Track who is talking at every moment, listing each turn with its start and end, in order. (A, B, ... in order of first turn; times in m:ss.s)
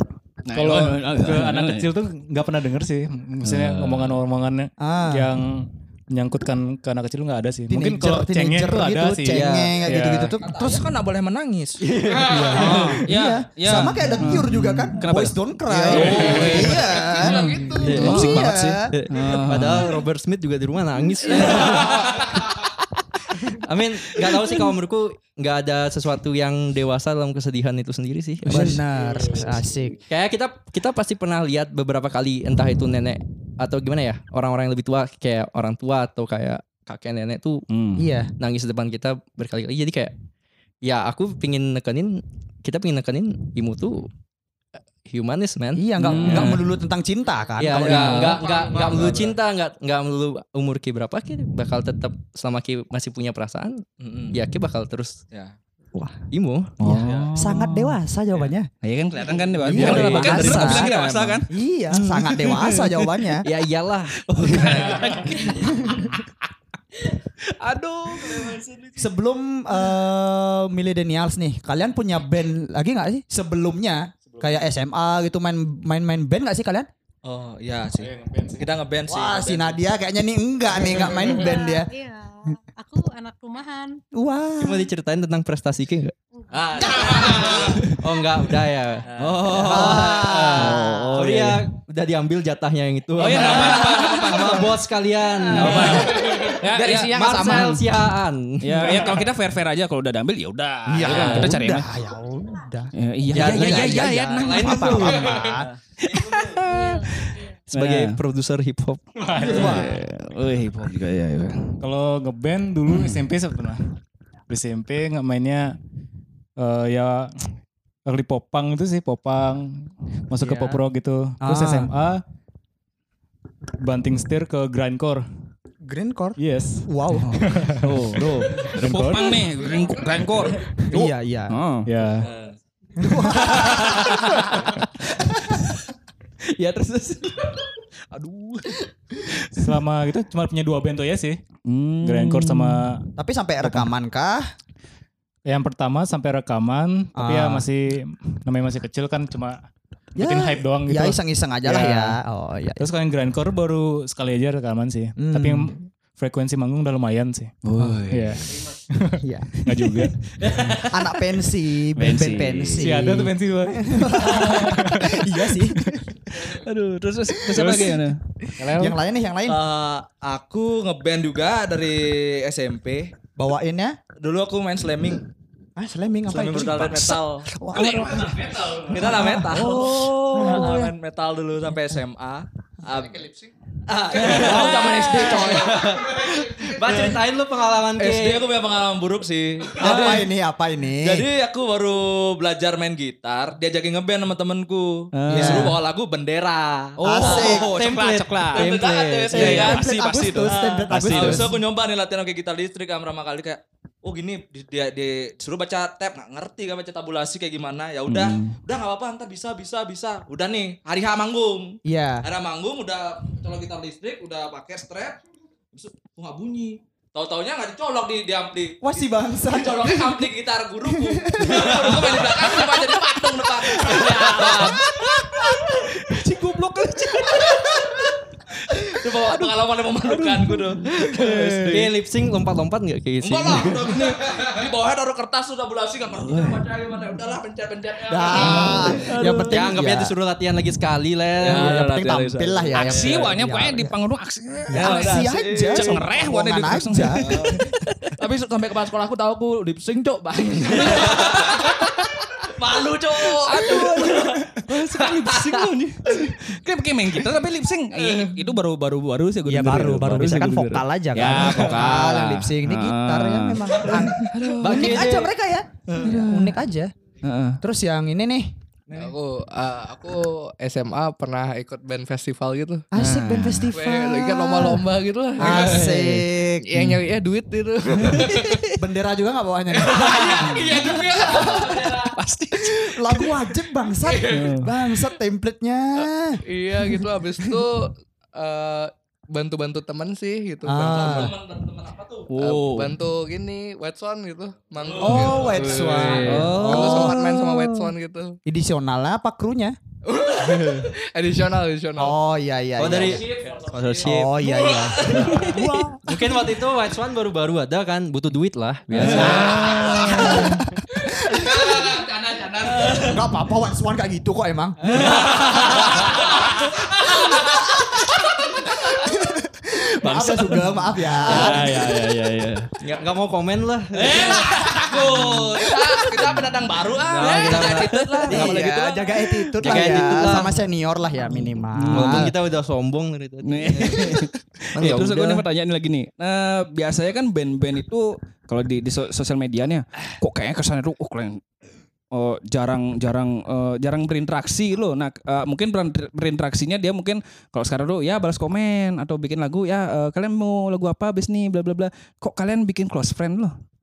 0:00.5-0:01.9 A
0:00.5-0:09.5 B
0:03.4-0:04.2 A
0:04.8-0:05.3 C
0:07.7-0:10.8 C
0:09.3-0:09.8 D
0:09.7-0:11.8 E
0:11.8-0:13.0 D
0:12.2-0:18.9 C
0:12.6-0:20.0 A
0:12.6-0:12.8 E
0:15.7-0:17.6 E
0:17.0-0:18.0 F
0:17.8-0:22.5 D
0:21.4-0:22.4 E
0:23.4-0:28.8 D
0:28.5-0:30.0 C
0:30.1-0:37.6 D
0:37.7-0:38.1 A
0:38.0-0:38.3 C
0:38.4-0:40.1 D
0:40.8-0:44.1 D
0:45.1-0:46.6 D
0:45.8-0:48.4 C
0:46.1-0:46.6 A
0:47.6-0:55.2 D
0:47.7-0:49.4 E
0:54.0-0:54.4 E
0:56.3-0:56.8 D
0:56.8-0:57.9 A
0:56.9-0:57.4 E
0:57.4-0:58.7 C
0:58.8-1:01.5 A
0:59.2-1:01.4 E
0:59.6-1:00.9 C
0:59.7-1:01.4 D
1:01.5-1:03.4 C
1:02.2-1:03.0 A
1:03.4-1:05.4 D
1:04.2-1:05.6 A
1:04.6-1:05.5 E
1:07.6-1:08.6 A
1:07.6-1:09.0 E
1:09.0-1:16.9 C
1:17.2-1:19.8 E
1:18.0-1:18.7 B
1:19.1-1:21.9 C
1:21.0-1:24.0 G
1:24.1-1:24.9 C
1:24.6-1:26.2 D
1:26.4-1:27.5 G
1:26.5-1:27.9 E
1:27.1-1:39.2 D
1:29.1-1:30.2 E
1:29.2-1:31.6 A
1:29.7-1:30.9 C
1:33.2-1:34.7 A
1:33.3-1:34.6 E
1:35.5-1:37.9 E
1:35.6-1:37.8 A
1:38.6-1:41.9 A
1:39.0-1:39.2 E
1:40.9-1:45.7 C
1:41.1-1:41.5 E
1:41.1-1:41.4 D
1:43.0-1:45.2 A
1:43.3-1:45.4 D
1:45.3-1:45.8 E
1:46.0-1:48.2 A
1:46.6-1:47.5 G
1:47.7-1:49.0 D
1:49.3-1:49.8 B
1:49.4-1:50.0 C
1:49.4-1:51.8 A
1:51.8-1:54.0 B
1:52.9-1:53.2 A
1:54.5-1:55.8 B
1:56.6-1:57.3 B
1:58.1-2:02.2 B
2:00.4-2:00.8 C
2:01.4-2:01.9 C
2:03.8-2:05.2 B
2:05.8-2:07.7 C
2:06.4-2:09.4 B
2:07.2-2:11.9 A
2:10.9-2:11.6 C
2:11.9-2:12.3 B
2:12.2-2:12.6 E
2:13.0-2:14.6 C
2:13.0-2:15.9 A
2:16.5-2:19.7 A
2:19.5-2:21.4 B
2:21.7-2:22.9 A
2:22.0-2:23.0 B
2:23.2-2:24.4 C
2:25.5-2:29.6 B
2:27.2-2:27.7 C
2:30.2-2:32.9 C
2:30.2-2:32.2 B
2:32.8-2:40.2 B
2:35.2-2:35.8 C
2:37.6-2:38.6 A
2:39.2-2:39.5 C
2:39.7-2:40.0 A
2:40.4-2:40.8 E
2:40.7-2:46.1 C
2:42.0-2:42.9 A
2:42.8-2:45.3 B
2:46.3-2:48.2 A
2:47.4-2:47.8 C
2:47.6-2:48.0 B
2:48.6-2:49.0 B
2:48.8-2:49.6 C
2:49.5-2:53.1 E
2:53.4-2:54.0 C
2:54.2-2:55.2 E
2:55.8-3:00.9 C
2:56.3-3:03.3 E
2:57.8-2:58.9 A
3:02.9-3:03.5 F
3:03.9-3:07.2 E
3:04.3-3:05.6 C
3:05.0-3:08.5 D
3:08.0-3:10.3 E
3:09.8-3:11.3 C
3:11.0-3:35.2 E
3:15.1-3:15.8 A
3:15.3-3:15.8 C
3:17.0-3:17.7 C
3:17.1-3:18.7 A
3:17.2-3:19.8 D
3:19.3-3:21.5 C
3:19.4-3:21.4 A
3:28.1-3:28.6 A
3:31.8-3:32.2 C
3:35.7-3:44.9 E
3:38.8-3:40.3 C
3:40.8-3:42.6 C
3:43.8-3:45.8 C
3:44.4-3:44.8 A
3:46.0-3:47.8 A
3:47.0-3:47.9 C
3:48.9-3:52.0 E
3:48.9-3:51.7 A
3:51.7-3:54.1 D
3:53.2-3:59.6 E
3:56.2-3:56.6 A
3:58.1-4:00.1 C
3:58.4-3:59.5 A
3:59.5-4:01.8 D
4:01.4-4:03.4 E
4:01.4-4:04.0 C
4:02.7-4:08.1 A
4:04.7-4:07.6 C
4:04.7-4:06.1 E
4:07.2-4:07.6 E
4:08.2-4:15.7 E
4:13.4-4:25.0 A
4:18.0-4:18.5 E
4:19.5-4:26.9 C
4:24.6-4:25.3 D
4:26.0-4:26.6 A
4:27.2-4:27.6 A
4:27.6-4:28.5 C
4:28.9-4:32.9 F
4:32.9-4:34.9 C
4:33.0-4:33.7 A
4:33.7-4:36.1 F
4:35.4-4:36.7 C
4:35.5-4:35.9 E
4:36.6-4:38.7 F
4:38.2-4:38.7 A
4:38.7-4:46.4 C
4:39.7-4:41.8 F
4:40.1-4:40.5 E
4:41.1-4:42.1 E
4:42.2-4:43.0 A
4:44.3-4:44.7 A
4:46.5-4:51.3 F
4:50.6-4:51.4 C
4:50.8-4:52.4 E
4:52.3-4:53.0 A
4:52.4-4:58.4 F
4:54.8-4:56.4 E
4:55.0-4:57.4 C
4:56.2-4:57.8 A
4:58.4-4:59.8 C
5:00.1-5:02.2 F
5:02.0-5:03.3 C
5:02.8-5:04.4 D
5:02.9-5:05.6 E
5:04.0-5:06.1 C
5:06.0-5:09.8 D
5:08.9-5:10.6 A
5:09.0-5:10.2 E
5:09.0-5:11.9 C
5:11.3-5:13.2 E
5:12.9-5:15.2 C
5:14.9-5:17.8 E
5:15.0-5:15.9 A
5:17.3-5:21.7 C
5:21.2-5:22.7 A
5:21.2-5:22.0 E
5:22.8-5:24.5 D
5:24.0-5:29.2 E
5:24.4-5:25.7 A
5:27.1-5:28.6 D
5:27.3-5:28.3 A
5:28.3-5:32.3 C
5:29.6-5:30.6 D
5:31.8-5:32.3 A
5:31.9-5:35.4 D
5:33.4-5:41.4 A
5:42.1-5:53.5 A